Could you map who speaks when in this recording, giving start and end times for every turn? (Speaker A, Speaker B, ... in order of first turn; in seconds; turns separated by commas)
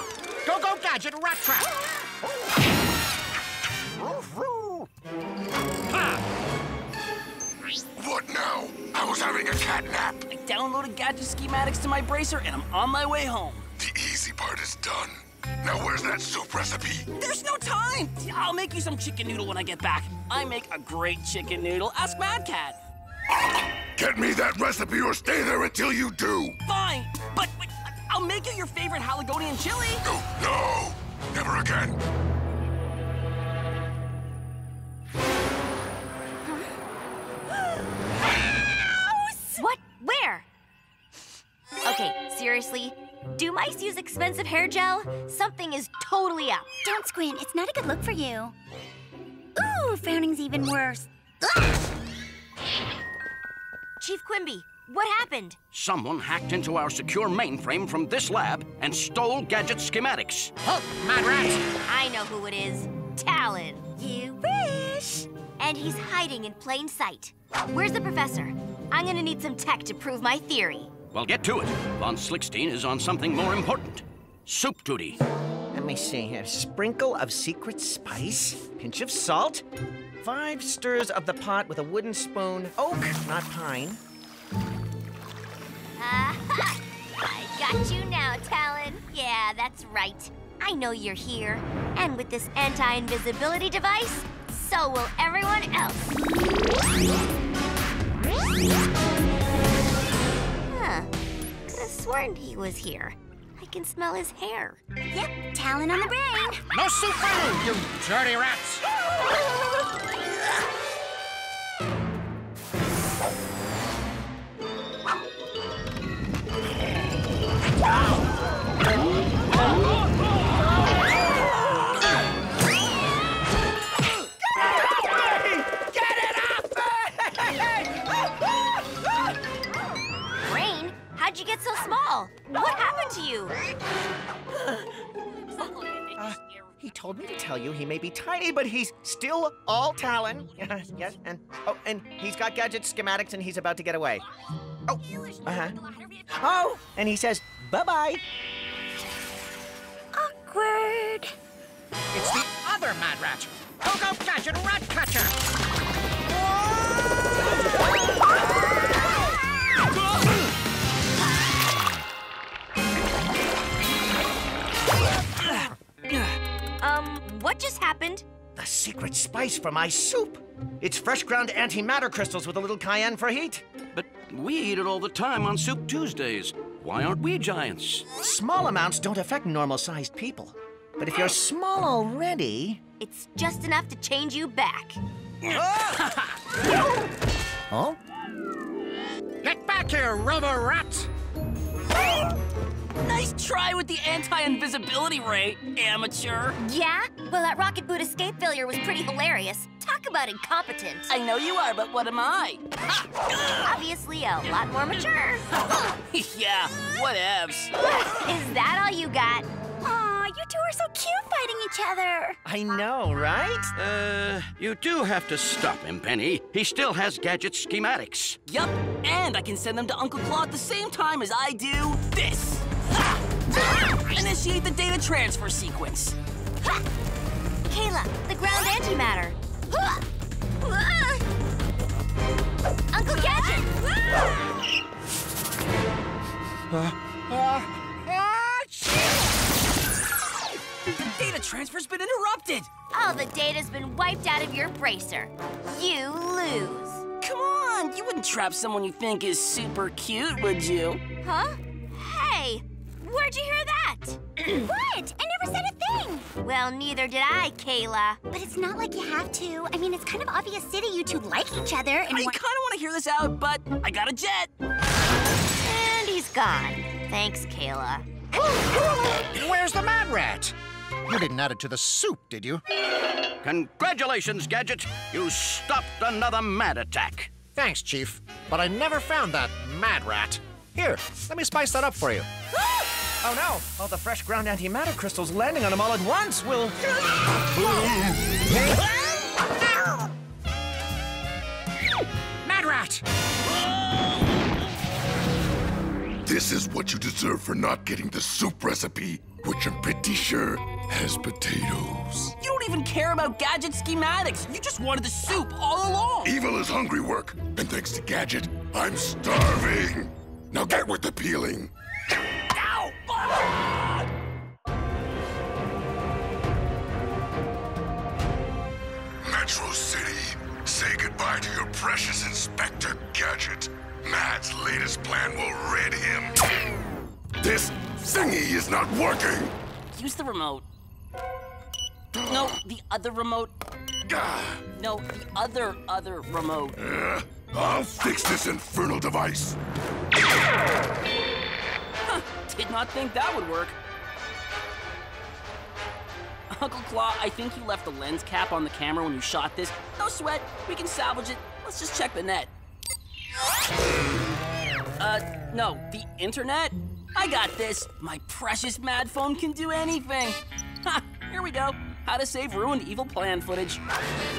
Speaker A: 0.5-1.7, Speaker A: 4.0-4.9, Speaker A: 5.9-6.2, Speaker B: 8.0-10.2, Speaker C: 10.3-13.7, Speaker B: 13.8-17.1, Speaker C: 17.1-22.8, Speaker B: 23.3-26.6, Speaker C: 26.7-30.0, Speaker B: 30.0-32.0, Speaker D: 38.9-39.6, Speaker E: 39.6-40.5, Speaker E: 41.9-46.7, Speaker D: 46.8-48.5, Speaker D: 49.6-51.7, Speaker E: 54.0-55.6, Speaker F: 55.7-60.5, Speaker A: 60.6-61.7, Speaker E: 61.9-63.9, Speaker D: 64.0-65.3, Speaker E: 65.6-70.9, Speaker F: 71.1-75.2, Speaker G: 75.7-79.6, Speaker G: 80.2-84.0, Speaker E: 86.0-96.2, Speaker E: 100.7-101.1, Speaker E: 101.7-104.8, Speaker D: 105.1-106.6, Speaker A: 106.7-108.8, Speaker G: 124.6-128.4, Speaker E: 130.4-133.6, Speaker C: 135.6-136.5, Speaker G: 136.2-144.2, Speaker G: 144.9-145.8, Speaker C: 145.7-146.2, Speaker G: 146.3-148.2, Speaker D: 150.1-151.3, Speaker A: 152.1-155.4, Speaker E: 166.8-168.2, Speaker G: 168.6-173.6, Speaker F: 173.9-178.1, Speaker G: 178.2-182.8, Speaker E: 183.0-185.0, Speaker C: 185.4-186.3, Speaker G: 185.6-185.9, Speaker A: 187.7-188.0, Speaker A: 189.4-191.1, Speaker C: 193.0-196.6, Speaker E: 196.6-201.1, Speaker C: 201.1-202.6, Speaker C: 203.2-203.8, Speaker E: 203.6-205.5, Speaker C: 205.7-207.7, Speaker E: 207.8-209.5, Speaker D: 209.8-212.4, Speaker G: 212.4-213.7, Speaker F: 213.8-218.4, Speaker C: 218.5-222.7, Speaker C: 223.8-226.2, Speaker E: 227.7-229.9, Speaker E: 230.6-231.2, Speaker E: 232.9-233.8, Speaker A: 236.7-239.1, Speaker C: 241.0-242.7, Speaker E: 242.9-247.0, Speaker C: 247.2-251.0, Speaker E: 251.2-254.2, Speaker D: 254.4-256.3, Speaker E: 256.4-258.2, Speaker D: 258.3-262.4, Speaker C: 262.1-264.5, Speaker E: 265.6-268.1, Speaker A: 269.3-270.6, Speaker A: 271.1-272.6, Speaker F: 273.4-277.3, Speaker A: 277.6-282.3, Speaker G: 283.2-286.8, Speaker G: 287.6-288.1, Speaker A: 287.6-288.8, Speaker A: 292.4-293.0, Speaker B: 296.2-302.4, Speaker C: 302.4-306.3, Speaker B: 306.2-311.7, Speaker C: 312.6-313.5, Speaker B: 319.2-326.4, Speaker B: 327.4-329.5, Speaker C: 329.9-330.7, Speaker B: 332.1-332.6, Speaker C: 332.3-333.5, Speaker B: 334.1-334.6, Speaker C: 334.8-336.8, Speaker B: 336.8-339.6, Speaker C: 342.1-343.8, Speaker C: 346.5-352.5, Speaker C: 355.0-363.8